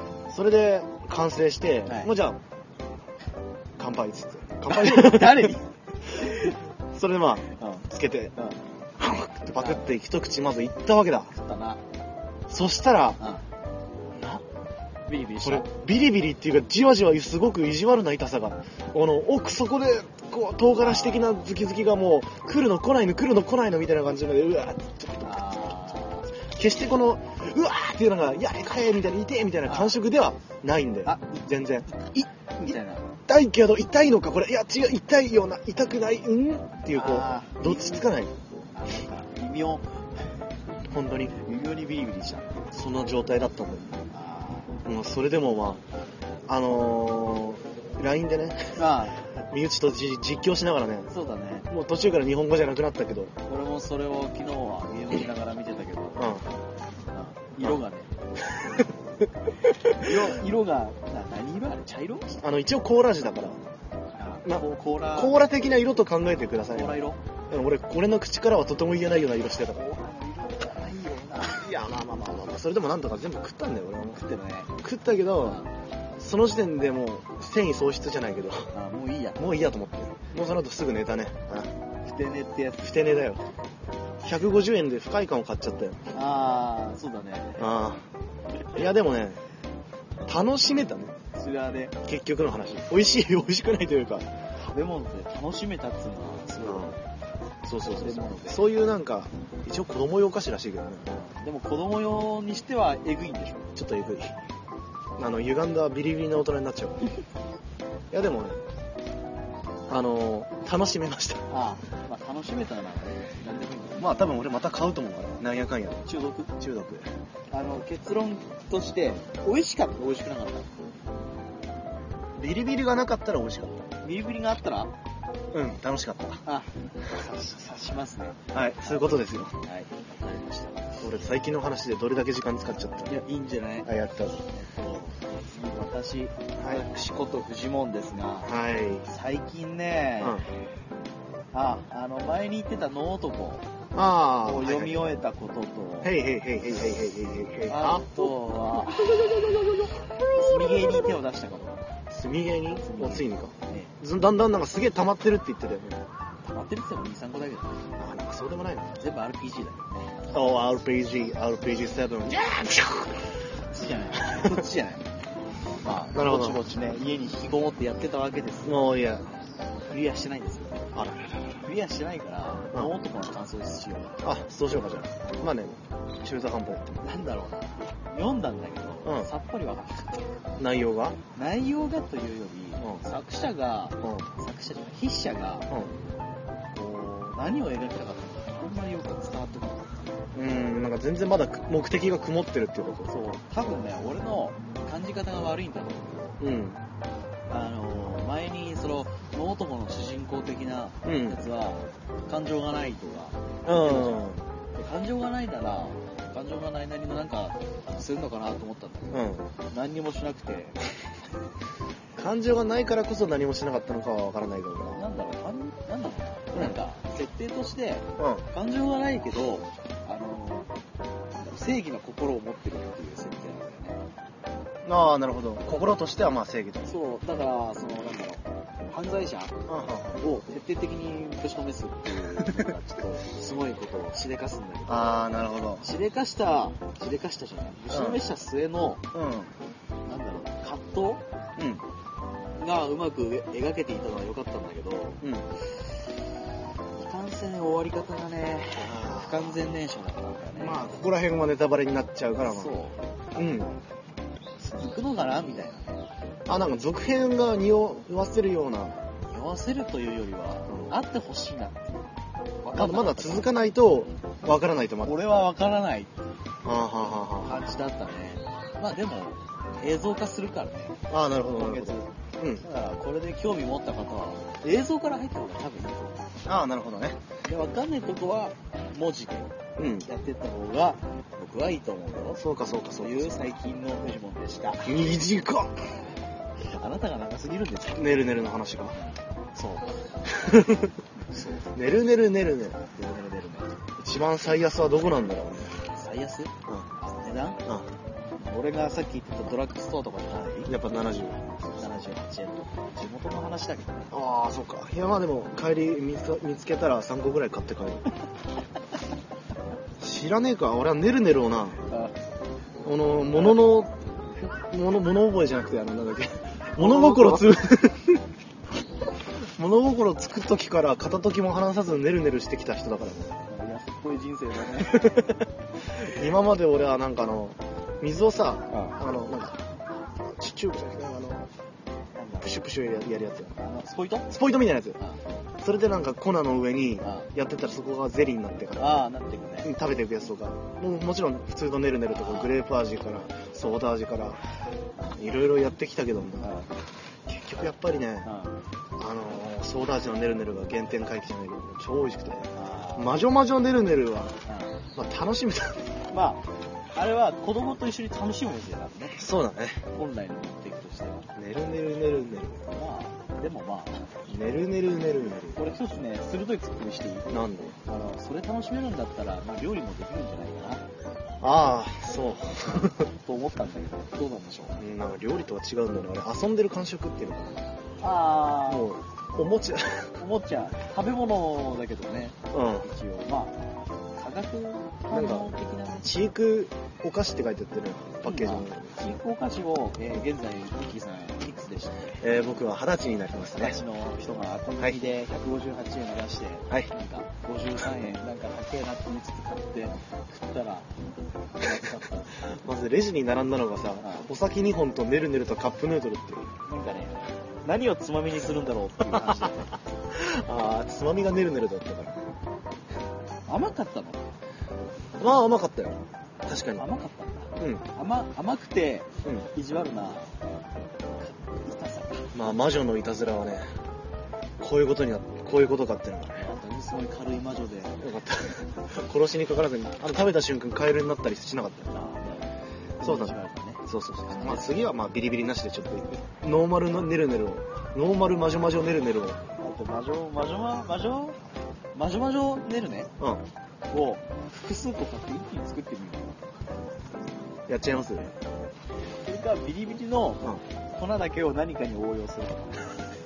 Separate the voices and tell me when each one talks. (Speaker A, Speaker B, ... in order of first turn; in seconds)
Speaker A: 0.3-2.4, 3.8-5.6, 6.1-8.3, 9.0-11.3, 12.5-13.2, 14.1-14.4, 15.4-25.4, 26.5-31.9, 32.6-38.4, 40.9-41.3, 42.7-44.0, 44.8-45.8, 46.5-48.8, 49.4-51.1, 51.7-53.3, 56.2-56.4, 58.5-58.9, 59.7-60.3, 62.4-63.6, 64.4-69.9, 71.5-74.2, 74.8-75.6, 76.2-78.7, 79.4-81.7, 82.8-83.4, 84.2-86.0, 87.6-88.0, 88.7-89.4, 90.2-91.1, 92.0-94.3, 96.6-97.0, 97.6-101.1, 103.8-104.4, 105.2-107.1, 108.1-108.6, 109.9-111.5, 114.0-117.1, 122.4-123.8, 125.5-126.4, 128.5-129.6, 131.0-133.1, 133.8-134.4, 136.6-136.8, 138.4-139.1, 140.2-140.4, 143.9-145.1, 146.0-148.3, 149.1-149.9, 152.1-156.0, 158.0-159.0, 160.3-163.3, 164.2-164.6, 166.1-166.6, 168.6-169.2, 170.9-171.6, 174.2-177.0, 179.1-179.3, 180.6-181.2, 185.7-185.9, 190.3-193.1, 196.4-196.8, 201.1-201.4, 203.7-204.4, 209.1-209.4, 212.2-215.0, 218.2-218.4, 224.8-226.9, 229.7-230.2, 234.9-235.8, 237.9-238.2, 239.1-239.5, 241.6-241.8, 245.2-245.5, 248.8-249.6, 250.6-252.7, 253.3-253.7, 256.5-259.0, 262.7-265.2, 266.6-267.8, 271.1-272.6, 276.4-277.2, 279.8-280.1, 282.4-283.5, 284.8-285.7, 287.9-289.0, 290.2-290.9, 291.7-292.8, 294.0-295.7, 300.7-301.4, 304.1-308.1, 310.0-311.8, 312.8-318.2, 319.4-323.4, 324.8-329.6, 330.2-331.5, 332.4-333.6, 334.3-335.0, 335.6-339.0, 339.6-344.4, 345.1-346.5, 347.3-348.3, 349.0-354.4, 354.9-356.0, 359.2-359.8, 361.4-362.6, 364.3-365.6, 367.3-367.7, 371.4-373.1, 374.8-377.8, 378.7-380.1, 382.5-382.9, 385.1-389.0, 392.2-393.8, 402.4-406.5, 409.1-412.2, 415.2-416.9, 417.6-417.8, 422.3-423.6, 424.6-426.5, 428.0-431.9, 433.0-433.3, 433.9-439.4, 447.7-448.3
Speaker B: 1.9-2.1, 4.7-5.7, 6.2-6.5, 7.6-8.6, 9.6-9.9, 11.3-11.8, 15.1-15.7, 20.8-21.4, 25.2-26.3, 29.7-29.9, 31.1-31.4, 32.0-33.1, 36.9-38.1, 38.7-40.2, 41.4-42.5, 44.1-44.8, 48.8-49.3, 51.1-51.7, 53.5-58.1, 59.9-62.4, 64.2-65.4, 66.7-67.2, 69.7-71.7, 74.1-74.7, 75.4-75.7, 78.7-79.4, 82.0-83.0, 86.1-87.7, 91.3-91.9, 94.6-97.0, 97.8-98.6, 101.1-103.7, 111.5-114.3, 116.1-116.5, 117.5-120.8, 124.0-124.9, 126.5-131.0, 133.1-133.9, 134.5-138.5, 139.1-140.4, 141.5-143.7, 144.4-146.1, 147.7-149.6, 150.3-151.9, 152.8-154.0, 156.4-157.8, 159.0-160.2, 163.7-165.1, 165.8-168.8, 169.9-170.9, 171.6-174.4, 175.2-175.5, 177.0-180.3, 181.3-185.7, 186.7-190.0, 193.1-196.4, 197.5-204.2, 204.7-210.8, 214.9-220.7, 221.3-224.0, 226.8-229.6, 230.2-239.0, 240.1-241.2, 242.6-245.2, 246.9-250.9, 252.4-253.8, 254.6-256.0, 259.3-262.1, 262.6-263.6, 265.0-266.1, 267.4-271.0, 271.5-276.2, 277.5-279.5, 280.1-282.4, 283.0-285.2, 286.6-288.0, 289.0-290.1, 291.2-291.7, 292.9-293.8, 295.9-297.6, 298.4-300.7, 301.6-304.1, 311.9-312.1, 313.3-313.6, 316.8-317.5, 323.4-325.3, 328.7-329.0, 332.1-332.5, 333.6-334.3, 337.0-337.3, 338.8-339.7, 342.1-342.6, 346.4-346.7, 348.2-348.6, 352.5-353.2, 354.4-354.8, 356.1-356.4, 356.9-359.2, 359.9-361.3, 362.7-364.1, 365.6-370.8, 372.8-374.8, 378.0-378.9, 380.2-383.6, 384.2-386.1, 388.2-392.2, 393.5-400.9, 401.6-402.3, 404.0-404.3, 406.7-409.7, 413.5-414.2, 416.7-420.3, 421.2-422.3, 426.4-428.0, 431.9-434.7, 439.6-441.4, 441.9-443.1, 443.9-446.5, 449.2-453.0